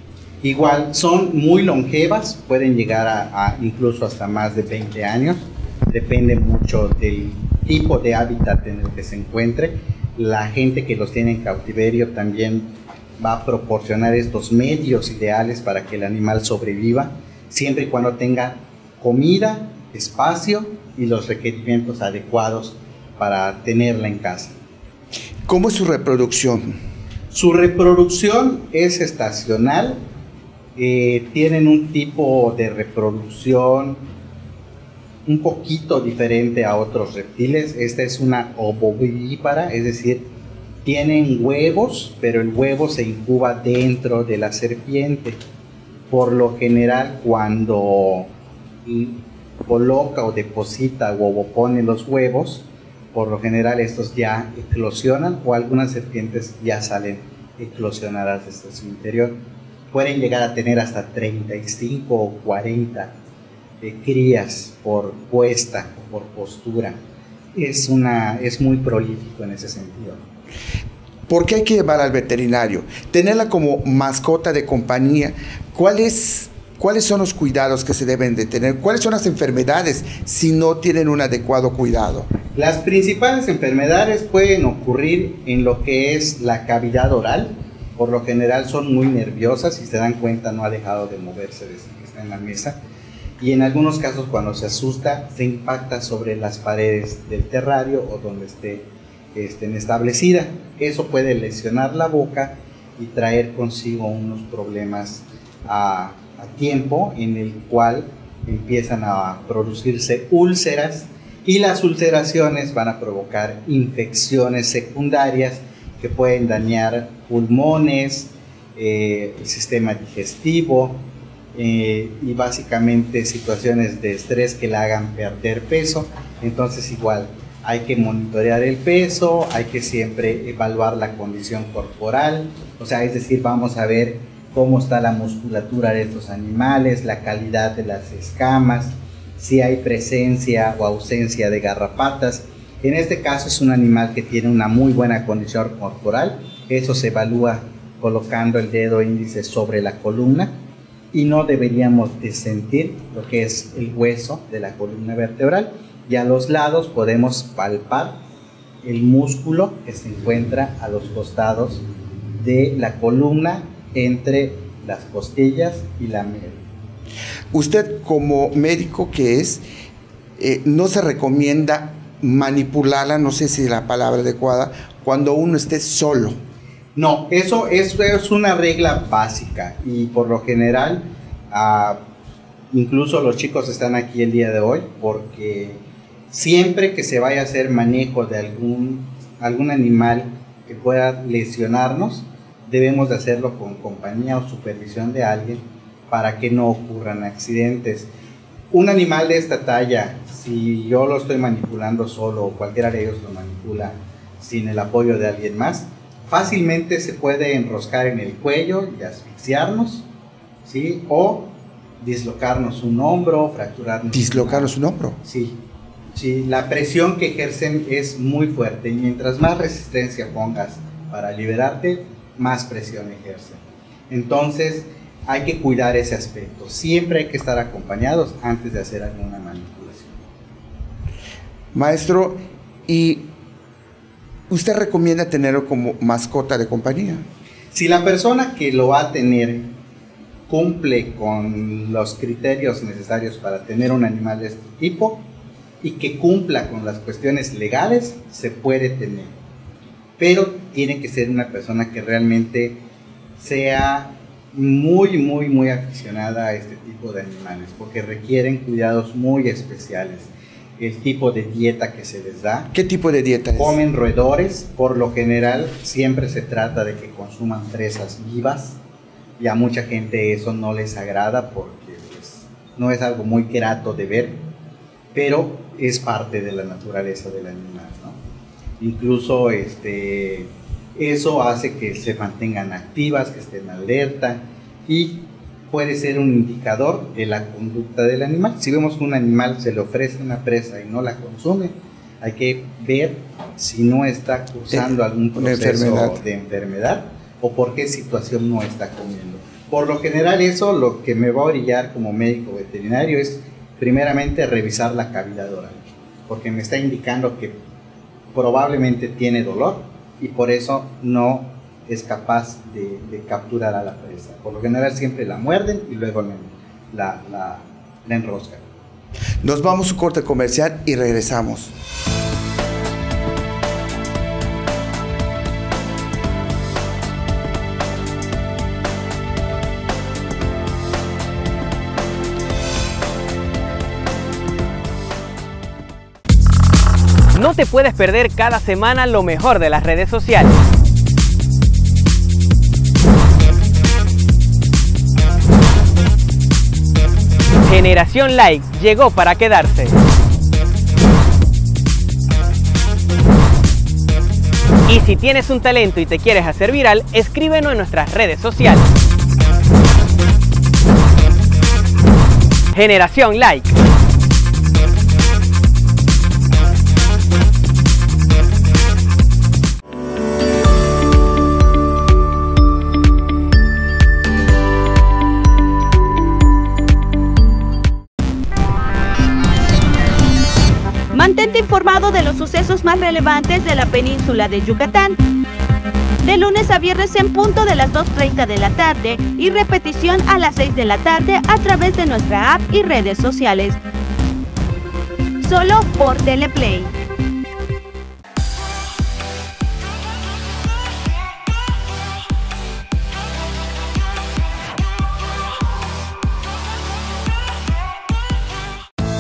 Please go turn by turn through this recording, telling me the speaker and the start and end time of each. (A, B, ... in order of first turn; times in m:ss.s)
0:00.4-0:24.6 A
0:25.4-0:26.7 B
0:27.3-0:30.0 A
0:30.8-0:34.0 A
0:35.2-0:40.3 A
0:40.8-0:45.4 A
0:46.1-0:48.3 A
0:48.8-0:59.4 A
0:59.9-1:03.1 A
1:03.8-1:07.0 A
1:07.5-1:10.2 A
1:11.3-1:22.3 B
1:22.5-1:32.8 A
1:33.4-2:30.5 A
2:31.1-2:38.2 A
2:38.8-2:41.8 A
2:42.4-2:46.6 A
2:47.5-2:49.6 B
2:50.4-2:56.4 B
2:56.9-3:02.0 A
3:02.7-3:18.1 A
3:18.7-3:30.1 A
3:30.6-3:35.6 A
3:34.1-3:35.2 B
3:36.1-3:50.2 A
3:51.7-3:53.3 B
3:54.5-3:57.2 B
3:57.7-3:59.7 A
4:00.5-4:05.2 A
4:05.8-4:09.4 A
4:10.2-4:12.8 A
4:13.4-4:22.7 A
4:22.7-4:23.8 B
4:23.6-4:28.8 A
4:29.4-4:34.4 A
4:35.1-4:38.2 A
4:38.8-5:07.6 A
4:54.7-4:56.2 B
5:08.3-5:18.6 A
5:19.4-5:21.8 B
5:37.3-5:40.6 C
5:47.6-5:50.0 C
5:54.9-5:58.9 C
6:02.7-6:03.8 C
6:21.1-6:25.2 D
6:26.2-6:33.8 D
6:35.4-6:36.9 D